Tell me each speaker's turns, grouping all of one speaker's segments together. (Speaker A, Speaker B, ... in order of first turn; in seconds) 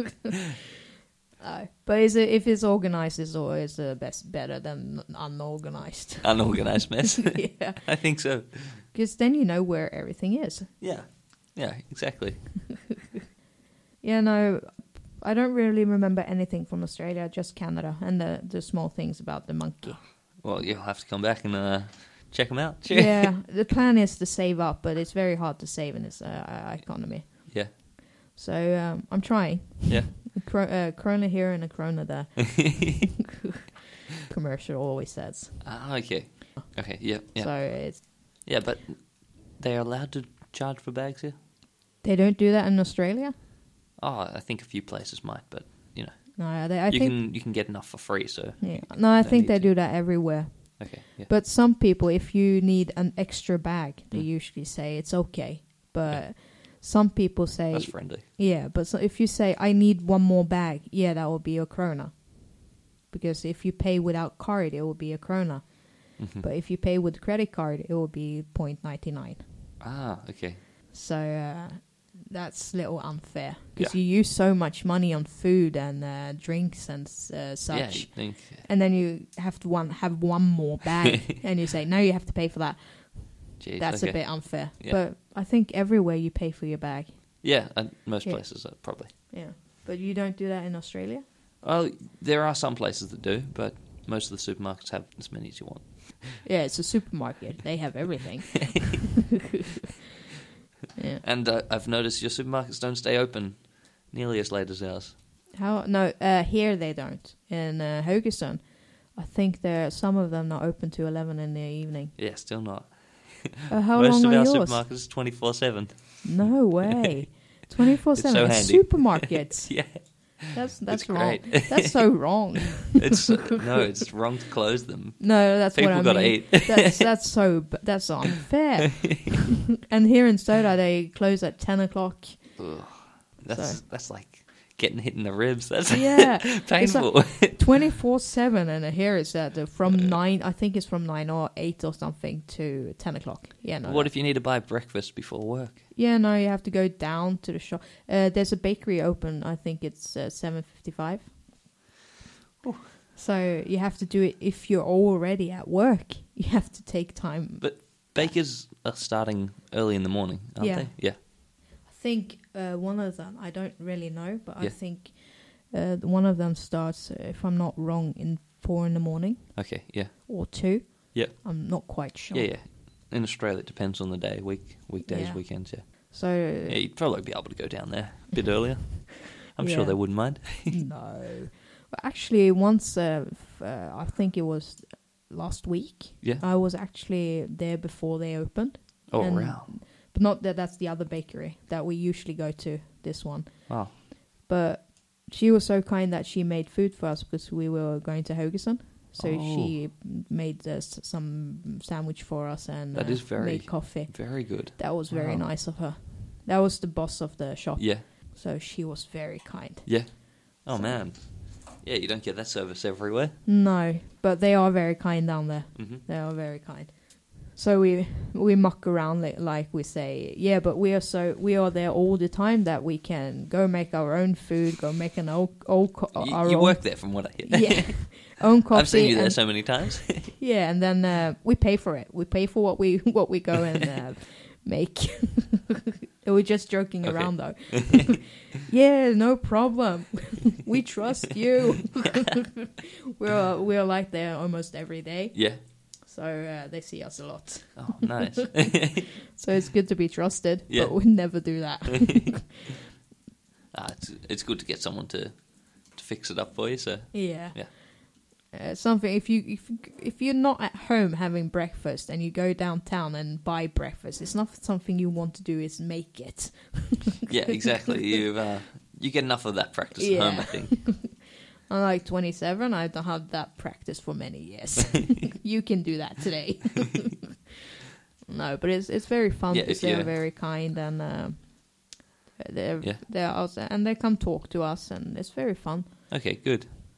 Speaker A: 1.4-10.8, 14.0-20.1, 22.9-33.1, 34.2-35.7, 36.6-38.0, 42.0-43.3, 46.4-47.2, 48.6-69.8, 70.9-91.2, 96.4-99.1, 101.0-101.2, 105.5-112.2, 113.7-114.8, 116.2-123.2, 125.2-132.9, 133.5-133.8, 135.9-144.1, 145.9-151.4, 153.0-158.3, 160.6-172.6, 175.0-176.8, 179.6-211.1, 213.4-252.6, 257.1-267.9, 269.9-271.1, 271.7-277.4, 278.3-286.4
Speaker B: 6.2-8.8, 10.8-12.5, 20.4-23.3, 35.6-41.3, 44.0-51.3, 57.7-58.2, 66.2-66.5, 69.8-70.6, 77.7-78.7, 83.6-85.0, 87.4-89.1, 91.6-96.4, 101.2-105.2, 112.2-117.2, 118.1-127.1, 132.6-137.9, 139.9-140.2, 143.8-145.9, 152.6-152.9, 157.6-161.2, 169.5-180.8, 189.1-189.7, 193.7-193.9, 199.2-199.8, 202.9-205.5, 207.8-208.0, 209.8-213.4, 215.7-216.0, 226.1-230.3, 237.0-238.1, 245.3-245.6, 247.8-249.1, 250.7-251.7, 253.7-257.7, 267.3-270.9, 279.5-280.1, 286.1-286.7